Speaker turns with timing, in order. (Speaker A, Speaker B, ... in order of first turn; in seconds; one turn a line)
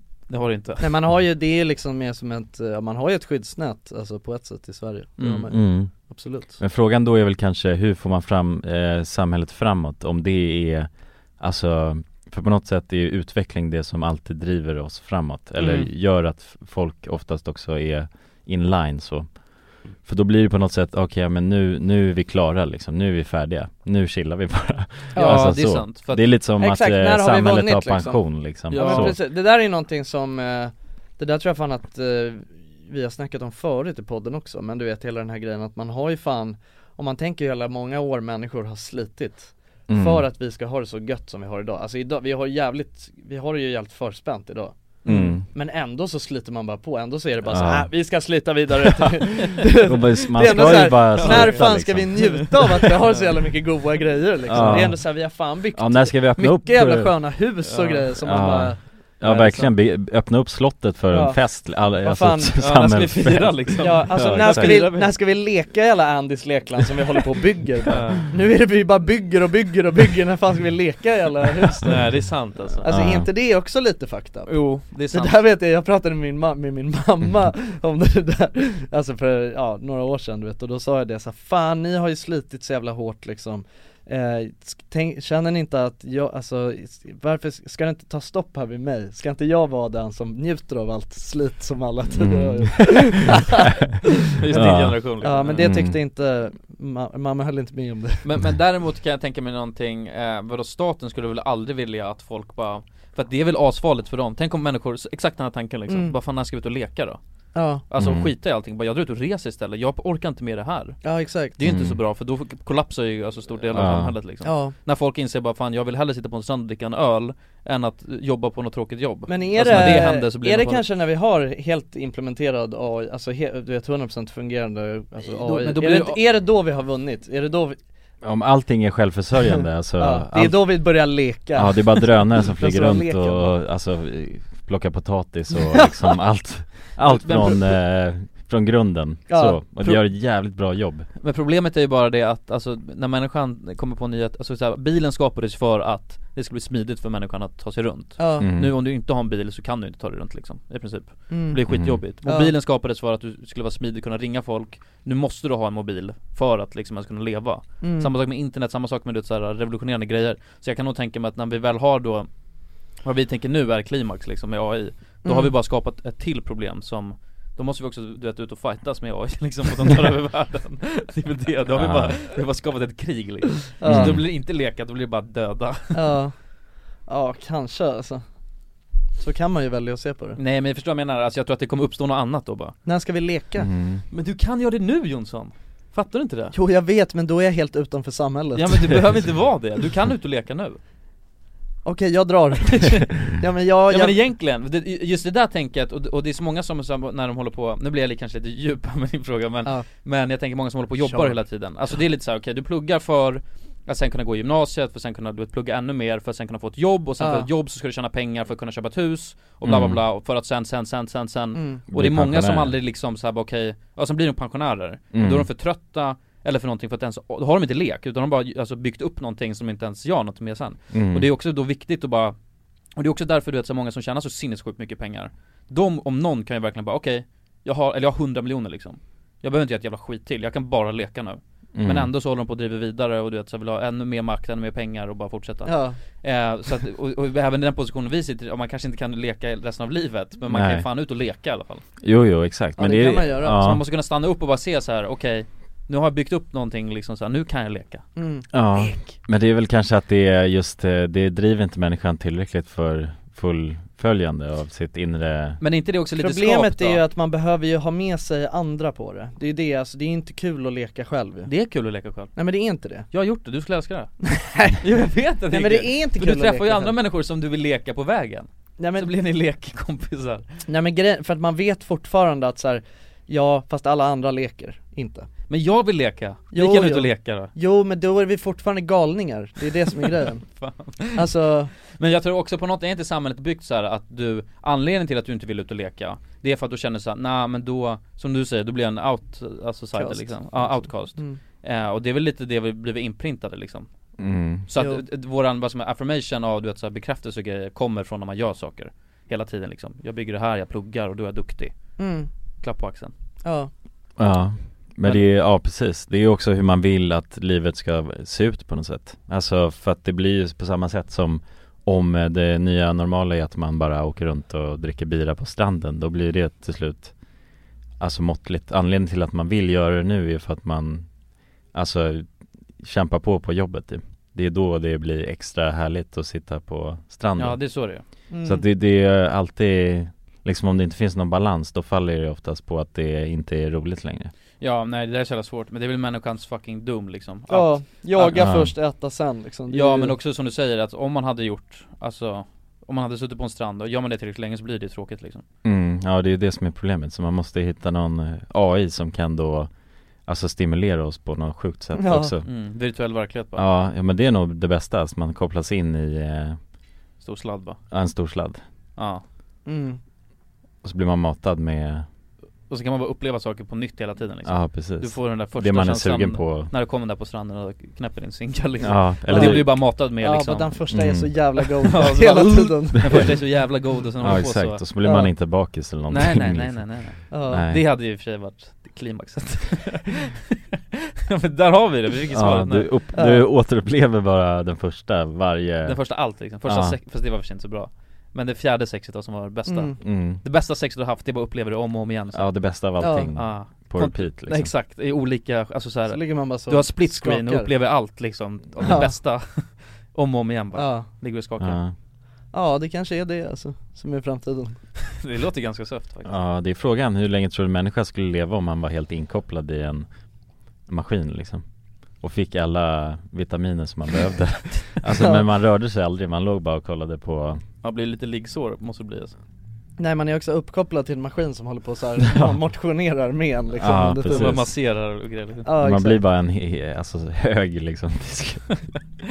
Speaker A: 0.3-0.9
Speaker B: 0.8-6.6
Speaker A: 5.2-5.5
Speaker C: 5.5-29.2
Speaker A: 15.6-15.9
Speaker B: 25.1-25.5
Speaker A: 25.1-26.2
Speaker B: 26.6-45.0
Speaker A: 28.7-29.2
Speaker C: 39.9-40.2
Speaker A: 45.0-45.4
Speaker C: 45.0-45.4
Speaker B: 45.5-59.7
Speaker C: 47.5-47.9
Speaker C: 49.7-52.4
Speaker A: 50.4-53.4
Speaker C: 54.5-57.2
Speaker A: 54.5-54.9
Speaker A: 57.6-58.1
Speaker C: 58.2-64.8
Speaker B: 61.1-62.7
Speaker A: 62.6-65.1
Speaker B: 63.8-72.0
Speaker A: 67.9-68.2
Speaker A: 71.8-72.8
Speaker B: 72.8-98.2
Speaker C: 72.8-73.3
Speaker A: 74.5-75.4
Speaker C: 92.1-93.4
Speaker A: 94.4-95.7
Speaker C: 94.5-95.0
Speaker C: 95.6-96.0
Speaker A: 98.2-107.2
Speaker B: 105.9-106.1
Speaker B: 107.5-107.8
Speaker A: 107.9-120.8
Speaker C: 108.0-108.3
Speaker B: 111.0-111.5
Speaker C: 111.6-112.0
Speaker C: 113.7-114.1
Speaker B: 114.4-114.7
Speaker B: 119.3-127.8
Speaker A: 125.2-126.2
Speaker C: 128.2-141.1
Speaker B: 130.0-133.5
Speaker A: 137.0-137.7
Speaker B: 139.3-139.9
Speaker A: 141.2-176.0
Speaker B: 148.2-148.5
Speaker C: 148.4-148.7
Speaker B: 151.3-151.6
Speaker C: 151.7-152.0
Speaker B: 152.2-152.5
Speaker B: 157.8-158.1
Speaker B: 165.2-165.5
Speaker C: 171.7-172.2
Speaker B: 173.8-174.2
Speaker C: 173.9-174.2
Speaker B: 175.9-176.5
Speaker B: 177.0-178.2
Speaker B: 179.2-180.4
Speaker A: 180.4-182.8
Speaker B: 182.8-183.7
Speaker C: 183.6-184.0
Speaker A: 184.1-186.5
Speaker B: 186.5-189.0
Speaker A: 188.5-190.8
Speaker B: 191.8-194.2
Speaker A: 193.9-222.3
Speaker B: 201.0-201.4
Speaker B: 207.2-207.5
Speaker C: 209.6-210.0
Speaker B: 211.5-211.8
Speaker C: 211.9-212.7
Speaker C: 215.1-215.5
Speaker C: 220.9-221.3
Speaker A: 222.9-241.8
Speaker C: 231.7-232.1
Speaker B: 235.6-236.0
Speaker C: 240.5-240.8
Speaker C: 242.0-243.8
Speaker B: 242.8-243.6
Speaker A: 243.5-248.1
Speaker B: 248.2-248.5
Speaker C: 248.5-255.6
Speaker A: 255.6-257.0
Speaker B: 256.2-261.5
Speaker A: 261.4-262.4
Speaker B: 262.3-263.1
Speaker A: 263.1-264.1
Speaker B: 264.2-264.8
Speaker A: 264.8-270.5
Speaker B: 265.5-266.9
Speaker B: 268.8-269.1
Speaker B: 270.6-275.3
Speaker A: 275.5-277.5
Speaker B: 276.5-280.4
Speaker A: 280.4-281.3
Speaker B: 281.1-281.7
Speaker A: 281.9-302.1
Speaker B: 289.9-291.4
Speaker C: 294.2-294.6
Speaker B: 294.8-295.0
Speaker B: 302.0-302.3
Speaker A: 302.6-303.1
Speaker B: 303.4-303.7
Speaker C: 304.2-317.4
Speaker C: 318.0-321.1
Speaker C: 321.6-327.8
Speaker A: 327.4-328.0
Speaker B: 328.3-328.6
Speaker C: 328.4-334.3
Speaker A: 334.6-338.6
Speaker B: 337.5-340.1
Speaker C: 338.3-338.7
Speaker A: 339.7-345.4
Speaker C: 345.6-352.5
Speaker B: 351.9-352.3
Speaker A: 352.4-353.6
Speaker C: 353.5-356.6
Speaker A: 357.2-357.8
Speaker C: 357.9-358.6
Speaker A: 358.9-359.2
Speaker B: 359.6-360.0
Speaker C: 360.8-362.1
Speaker A: 362.7-370.8
Speaker C: 364.4-366.7
Speaker C: 368.8-369.7
Speaker B: 369.3-373.2
Speaker C: 370.9-371.5
Speaker A: 371.6-374.8
Speaker C: 374.2-377.8
Speaker B: 375.0-375.3
Speaker A: 376.1-380.3
Speaker B: 377.3-377.6
Speaker A: 381.3-382.9
Speaker C: 382.3-387.0
Speaker B: 383.1-383.4
Speaker A: 385.8-401.8
Speaker B: 389.7-389.9
Speaker C: 390.0-390.4
Speaker C: 392.3-394.7
Speaker B: 393.0-393.3
Speaker B: 396.1-397.7
Speaker B: 398.8-399.1
Speaker B: 400.7-401.1
Speaker C: 401.6-401.9
Speaker B: 402.5-404.8
Speaker A: 405.2-406.4
Speaker C: 406.2-410.3
Speaker C: 410.9-417.6
Speaker B: 415.1-415.4
Speaker A: 417.8-419.3
Speaker B: 420.0-424.7
Speaker C: 422.3-422.6
Speaker C: 423.8-424.7
Speaker A: 424.2-425.7
Speaker B: 425.6-426.2
Speaker C: 425.8-428.8